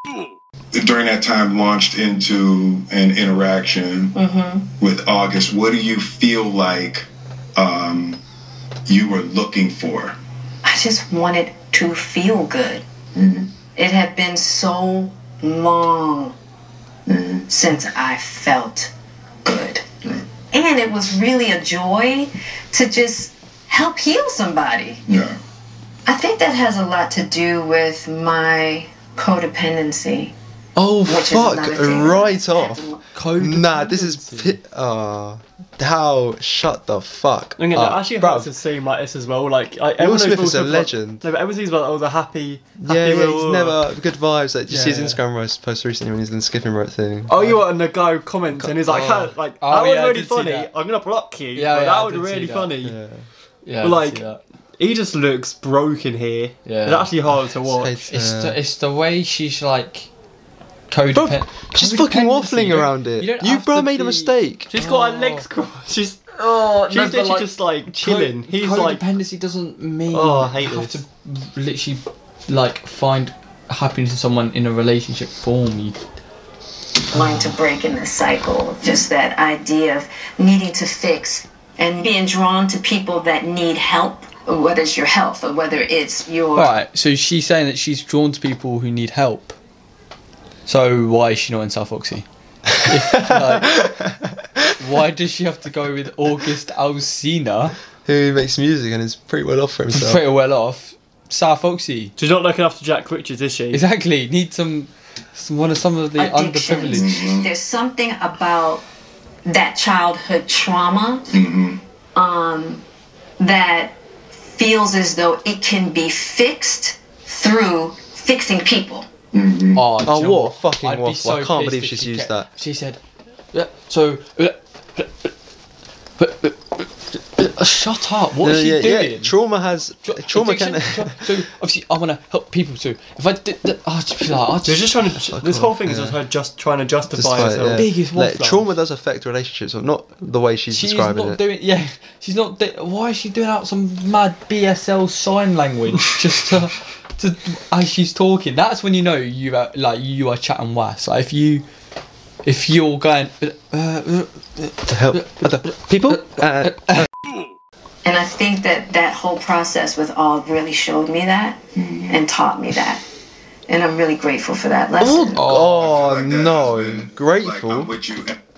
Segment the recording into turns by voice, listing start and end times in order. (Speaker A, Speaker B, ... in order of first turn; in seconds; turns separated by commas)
Speaker A: 0.7-4.1, Speaker B: 4.1-4.7, Speaker A: 4.8-8.2, Speaker A: 8.9-10.2, Speaker B: 10.6-12.8, Speaker A: 13.1-13.5, Speaker B: 13.7-16.4, Speaker A: 17.1-17.5, Speaker B: 17.5-18.9, Speaker B: 19.4-19.8, Speaker B: 20.5-25.0, Speaker A: 25.1-25.4, Speaker B: 26.1-30.3, Speaker C: 30.8-32.8, Speaker B: 31.1-33.0, Speaker D: 33.1-34.6, Speaker C: 33.4-38.5, Speaker E: 37.6-43.8, Speaker C: 40.0-41.2, Speaker C: 42.8-47.5, Speaker D: 44.7-45.2, Speaker E: 47.3-53.0, Speaker C: 48.5-49.3, Speaker D: 49.6-50.7, Speaker D: 51.5-52.7, Speaker C: 52.8-53.3, Speaker D: 53.6-54.4, Speaker E: 53.8-57.9, Speaker D: 56.6-57.1, Speaker C: 57.6-58.6, Speaker D: 58.1-60.1, Speaker D: 60.9-65.5, Speaker C: 61.1-64.7, Speaker E: 64.7-69.0, Speaker D: 66.3-76.0, Speaker E: 70.1-70.9, Speaker B: 77.1-86.7, Speaker D: 86.5-89.6, Speaker D: 90.7-92.3, Speaker D: 92.8-93.8, Speaker C: 93.1-94.6, Speaker D: 94.8-97.8, Speaker C: 98.0-100.2, Speaker D: 99.9-102.1, Speaker E: 102.2-103.8, Speaker D: 103.7-107.1, Speaker B: 106.2-108.8, Speaker A: 106.9-107.5, Speaker B: 109.5-111.3, Speaker A: 111.3-111.8, Speaker B: 112.1-112.8, Speaker B: 113.4-114.0, Speaker B: 114.5-119.1, Speaker A: 119.3-119.8, Speaker D: 119.7-123.0, Speaker C: 120.0-122.5, Speaker D: 123.5-125.3, Speaker D: 126.2-129.3, Speaker C: 128.4-131.3, Speaker D: 130.0-134.9, Speaker E: 134.6-137.8, Speaker C: 135.3-136.2, Speaker C: 137.1-141.4, Speaker D: 137.7-138.7, Speaker D: 140.7-151.7, Speaker D: 152.4-157.1, Speaker C: 154.9-157.1, Speaker B: 158.0-163.0, Speaker A: 161.8-162.2, Speaker B: 163.7-165.5, Speaker C: 165.0-167.9, Speaker D: 165.3-165.8, Speaker A: 165.6-168.4